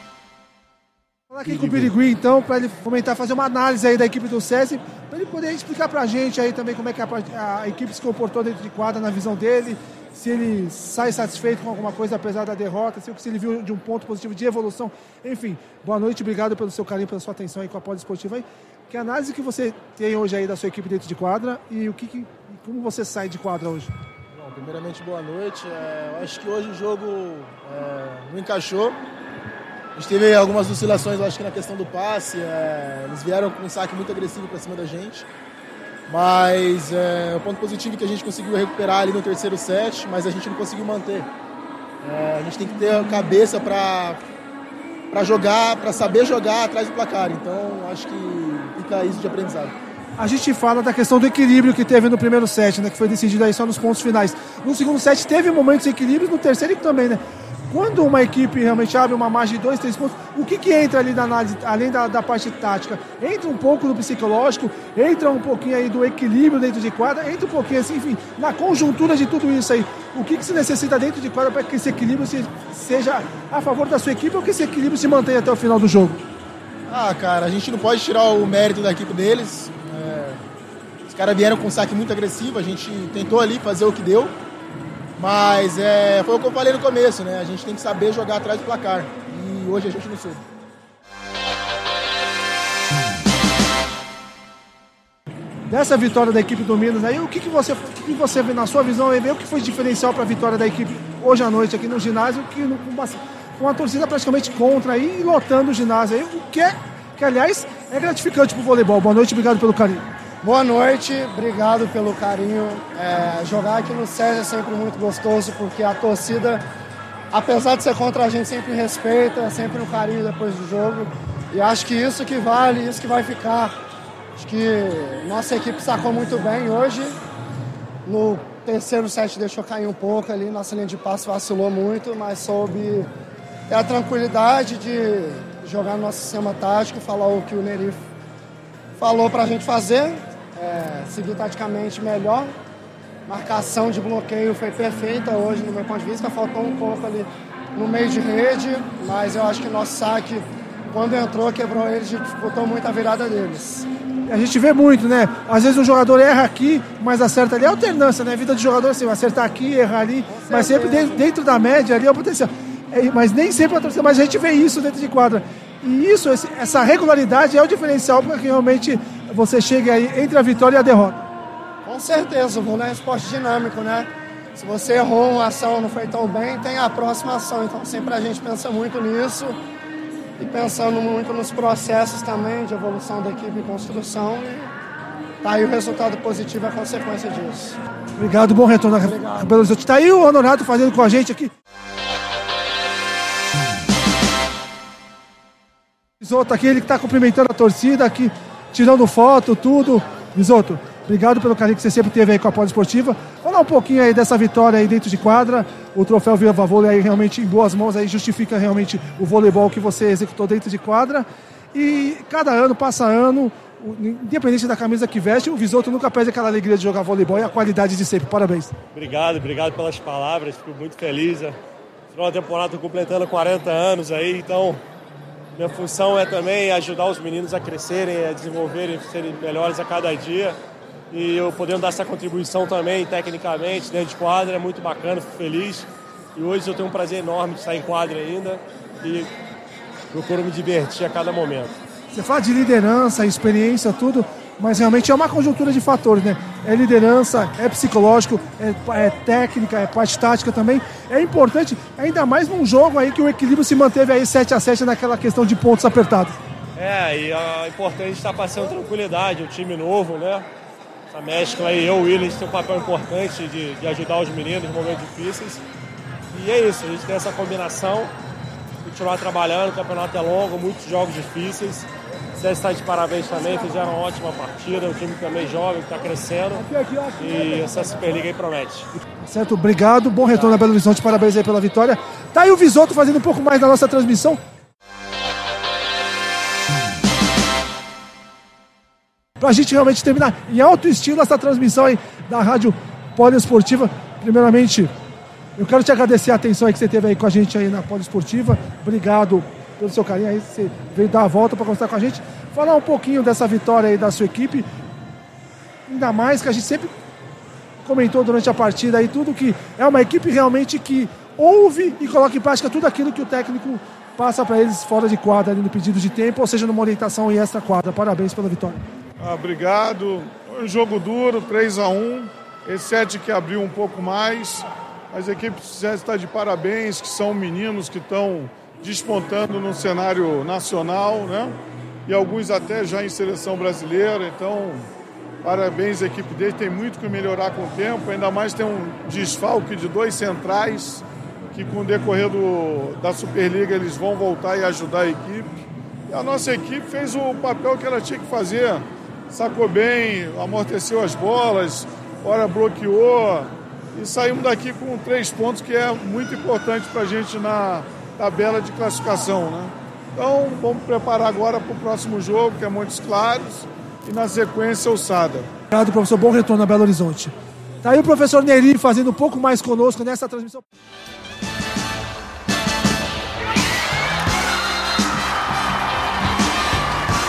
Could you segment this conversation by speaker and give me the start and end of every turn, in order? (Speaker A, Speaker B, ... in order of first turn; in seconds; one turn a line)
Speaker A: 1.3-23.9
Speaker B: 24.3-29.0
Speaker B: 30.0-35.3
Speaker B: 36.1-41.3
Speaker B: 42.0-44.2
Speaker B: 45.1-49.8
Speaker A: 50.2-76.2
Speaker B: 76.9-80.4
Speaker B: 81.1-84.3
Speaker B: 85.2-90.4
Speaker A: 95.7-110.0
Speaker C: 110.4-116.6
Speaker C: 117.3-123.7
Speaker C: 124.4-127.2
Speaker C: 128.0-133.1
Speaker C: 133.7-138.0
Speaker C: 139.0-142.5
Speaker C: 143.3-153.9
Speaker A: 154.3-171.2
Speaker C: 160.2-161.2
Speaker C: 171.8-179.6
Speaker C: 180.4-184.7
Speaker C: 185.4-187.8
Speaker A: 188.2-191.5
Speaker C: 189.0-189.5
Speaker A: 196.2-218.7
Speaker D: 218.9-221.6
Speaker D: 222.1-224.8
Speaker D: 225.5-230.6
Speaker D: 231.1-239.3
Speaker D: 240.1-241.8
Speaker A: 242.1-256.4
Speaker D: 256.8-260.4
Speaker D: 261.1-265.6
Speaker D: 266.3-268.1
Speaker D: 268.8-278.9
Speaker A: 276.7-277.1
Speaker A: 278.9-284.4
Speaker A: 289.4-294.9
Speaker A: 295.6-304.6
Speaker A: 305.9-306.9
Speaker A: 307.8-318.8
Speaker E: 319.2-334.9
Speaker E: 335.4-341.0
Speaker E: 341.6-345.5
Speaker E: 346.1-365.5
Speaker A: 365.7-370.6